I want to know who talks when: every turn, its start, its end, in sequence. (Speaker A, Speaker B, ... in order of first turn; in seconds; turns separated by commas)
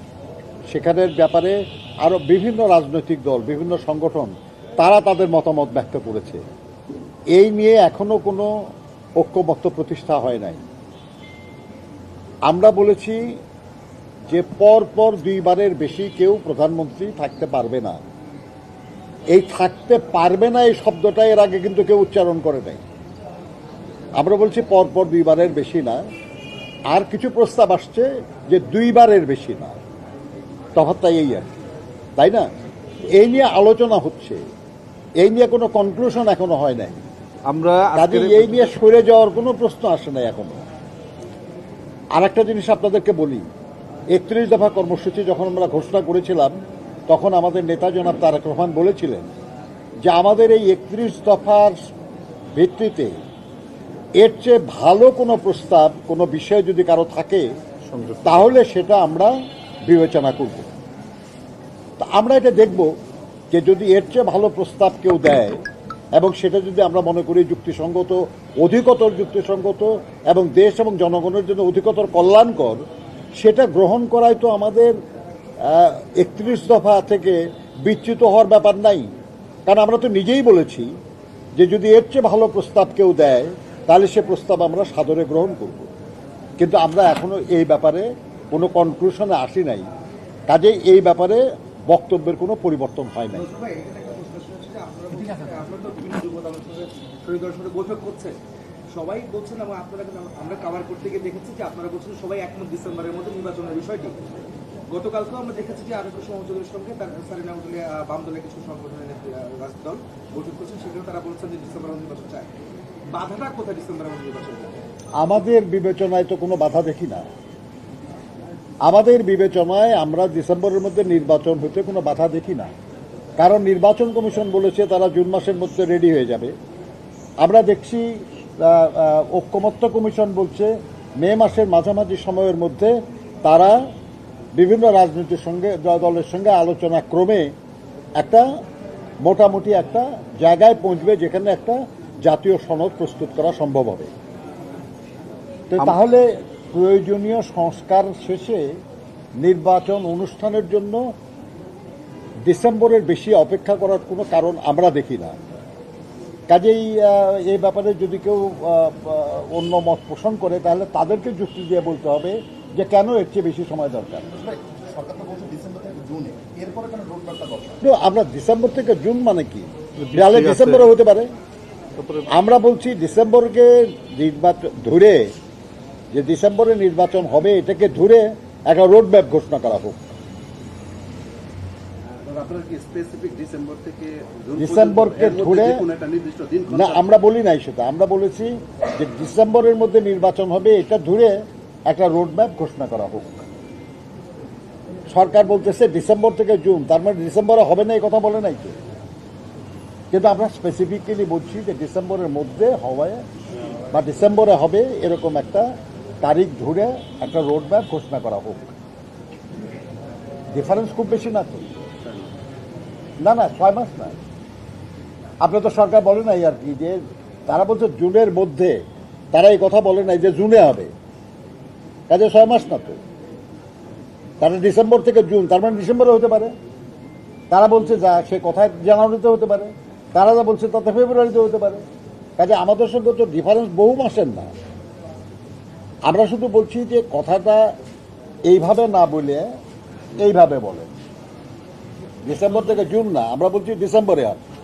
Speaker A: 0.7-6.4, Speaker A: 7.3-8.5, Speaker A: 9.2-10.6, Speaker A: 12.5-13.4, Speaker A: 14.3-18.0, Speaker A: 19.3-22.8, Speaker A: 24.2-26.0, Speaker A: 26.9-29.8, Speaker A: 30.8-31.5, Speaker A: 32.2-32.5, Speaker A: 33.0-34.4, Speaker A: 35.2-37.0, Speaker B: 37.5-38.7, Speaker A: 37.9-40.6, Speaker A: 42.1-43.5, Speaker A: 44.1-46.5, Speaker A: 47.1-49.3, Speaker A: 50.0-51.7, Speaker A: 52.5-53.1, Speaker A: 54.2-57.5, Speaker B: 57.9-58.5, Speaker A: 58.2-59.3, Speaker A: 59.9-60.7, Speaker A: 62.0-62.9, Speaker A: 63.5-65.6, Speaker A: 66.2-72.8, Speaker A: 73.4-75.0, Speaker A: 75.6-79.1, Speaker A: 79.7-80.9, Speaker A: 81.6-85.9, Speaker A: 86.6-89.9, Speaker A: 90.5-93.4, Speaker C: 93.3-98.3, Speaker C: 98.9-104.1, Speaker C: 104.9-112.5, Speaker C: 113.1-114.7, Speaker A: 115.2-117.2, Speaker A: 118.8-122.7, Speaker A: 123.4-126.5, Speaker A: 127.4-128.0, Speaker A: 128.6-132.9, Speaker A: 133.4-133.8, Speaker A: 134.6-137.5, Speaker A: 138.2-138.4, Speaker A: 139.2-144.1, Speaker A: 145.7-148.6, Speaker A: 149.4-151.0, Speaker A: 152.4-155.3, Speaker A: 156.5-164.3, Speaker D: 164.2-167.8, Speaker A: 167.8-171.3, Speaker B: 170.0-170.9, Speaker B: 171.9-172.3, Speaker A: 172.3-175.3, Speaker A: 176.1-180.1, Speaker E: 182.2-187.0, Speaker A: 184.6-185.8, Speaker A: 186.7-191.3, Speaker A: 191.9-193.4, Speaker A: 195.1-198.8, Speaker A: 200.1-203.2, Speaker A: 203.9-205.7, Speaker A: 206.2-208.7, Speaker A: 210.5-211.7, Speaker A: 213.2-214.2, Speaker A: 215.4-218.8, Speaker A: 219.3-220.9, Speaker A: 222.1-223.0, Speaker A: 224.4-226.5, Speaker A: 227.5-231.8, Speaker A: 232.4-234.5, Speaker A: 236.1-237.7, Speaker A: 238.5-239.4, Speaker A: 240.2-240.9, Speaker A: 242.2-244.4